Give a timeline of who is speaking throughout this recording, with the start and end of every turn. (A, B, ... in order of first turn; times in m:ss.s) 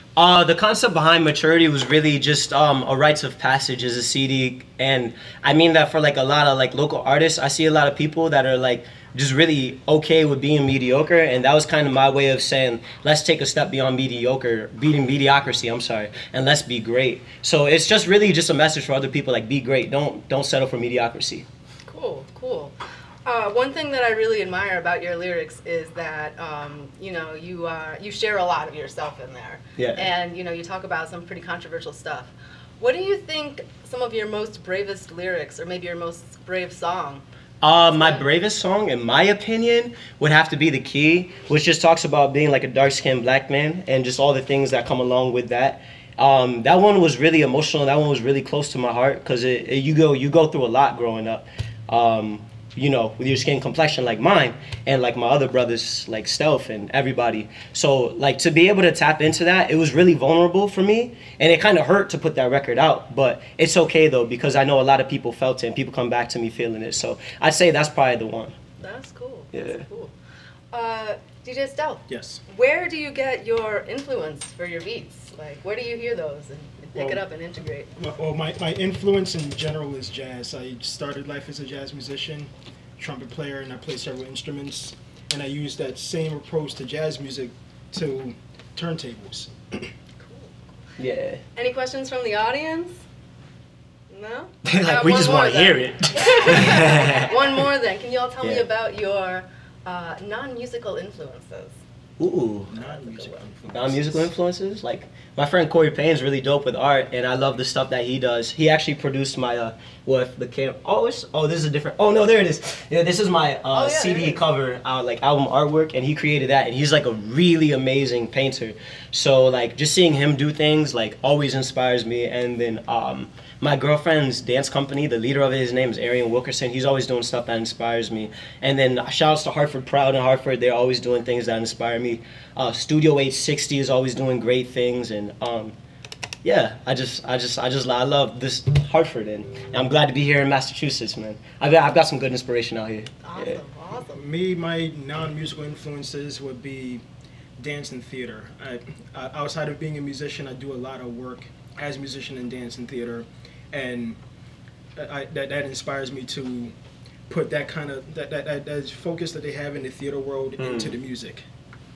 0:00.2-0:21.4 A
0:21.9-0:37.2 B
0:29.8-0:30.1 A
0:37.6-1:08.5 A
0:37.9-0:38.2 B
1:08.8-1:10.1 B
1:09.5-1:09.8 A
1:10.7-1:17.9 B
1:12.1-1:12.4 C
1:16.9-1:17.2 C
1:18.0-1:29.5 C
1:30.2-1:30.6 B
1:31.0-1:31.4 A
1:31.5-1:33.0 B
1:34.1-1:41.8 B
1:34.6-1:37.2 A
1:42.2-1:42.7 A
1:42.7-1:44.3 C
1:42.8-1:43.4 B
1:43.7-2:15.7 A
1:53.7-1:54.4 B
2:16.4-2:23.6 A
2:23.2-2:24.2 B
2:24.0-2:27.0 C
2:27.6-2:34.2 C
2:35.0-2:36.7 C
2:37.3-2:41.4 C
2:40.6-2:41.0 A